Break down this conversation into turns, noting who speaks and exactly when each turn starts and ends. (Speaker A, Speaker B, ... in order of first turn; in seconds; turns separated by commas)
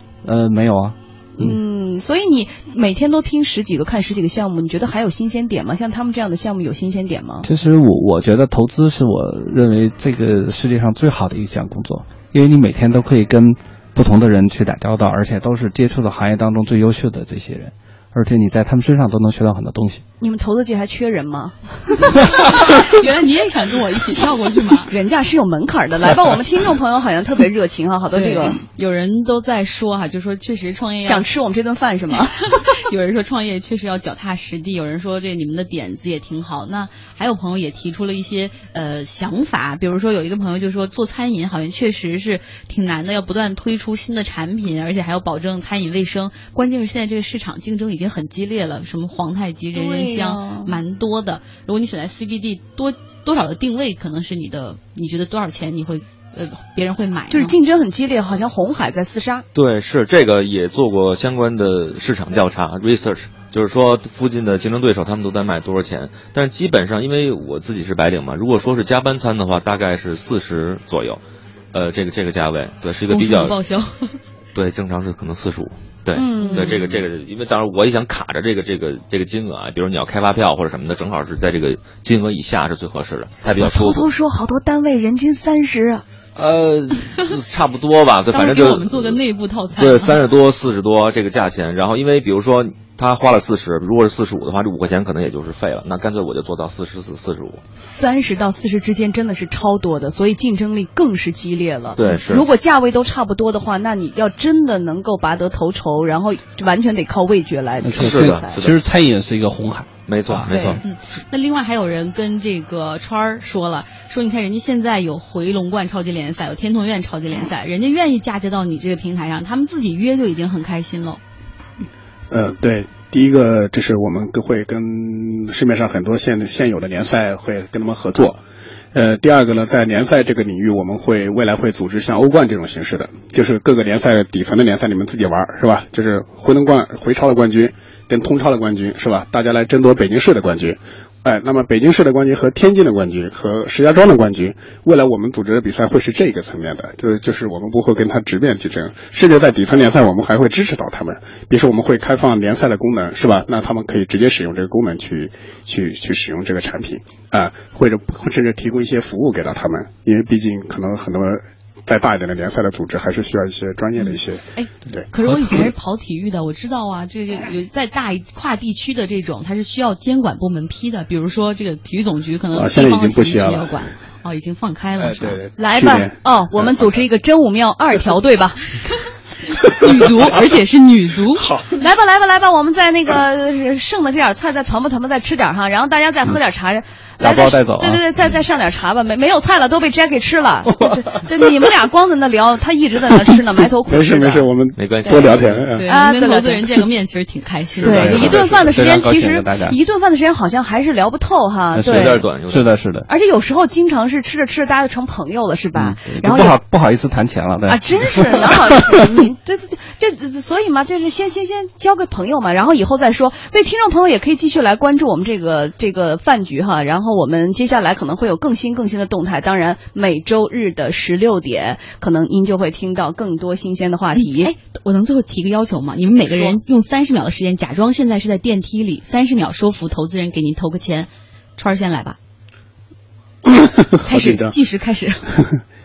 Speaker A: 0.2-1.6, Speaker B: 1.4-7.5, Speaker A: 7.4-20.0, Speaker B: 20.2-22.3, Speaker C: 22.4-24.9, Speaker B: 24.9-28.6, Speaker C: 28.1-31.2, Speaker B: 31.0-32.5, Speaker C: 32.6-57.5, Speaker B: 49.7-50.8, Speaker B: 57.3-59.5, Speaker D: 59.5-71.2, Speaker D: 71.7-73.5, Speaker C: 73.1-74.2, Speaker D: 74.5-84.1, Speaker B: 76.1-77.0, Speaker C: 76.4-76.7, Speaker B: 83.6-86.0, Speaker D: 86.4-89.2, Speaker C: 88.3-90.1, Speaker D: 89.8-97.6, Speaker B: 97.8-108.6, Speaker D: 102.0-102.5, Speaker A: 107.8-110.8, Speaker D: 108.0-108.8, Speaker D: 110.1-110.8, Speaker C: 110.8-121.2, Speaker E: 122.3-128.4, Speaker E: 128.9-165.6, Speaker C: 164.0-175.4, Speaker E: 172.5-173.9, Speaker E: 175.0-177.0, Speaker B: 175.6-178.8, Speaker C: 179.7-181.5, Speaker E: 181.4-181.7, Speaker B: 181.8-194.5, Speaker A: 187.2-188.0, Speaker E: 193.9-195.9, Speaker D: 194.8-195.7, Speaker B: 195.0-195.3, Speaker C: 195.8-198.2, Speaker B: 195.8-196.8, Speaker B: 197.8-202.3, Speaker A: 197.8-199.8, Speaker D: 197.9-198.7, Speaker A: 201.7-203.1, Speaker D: 201.9-202.7, Speaker B: 203.1-206.6, Speaker A: 205.8-208.9, Speaker B: 207.7-224.5, Speaker C: 224.2-232.2, Speaker B: 226.2-226.6, Speaker E: 233.4-234.6, Speaker C: 234.1-235.3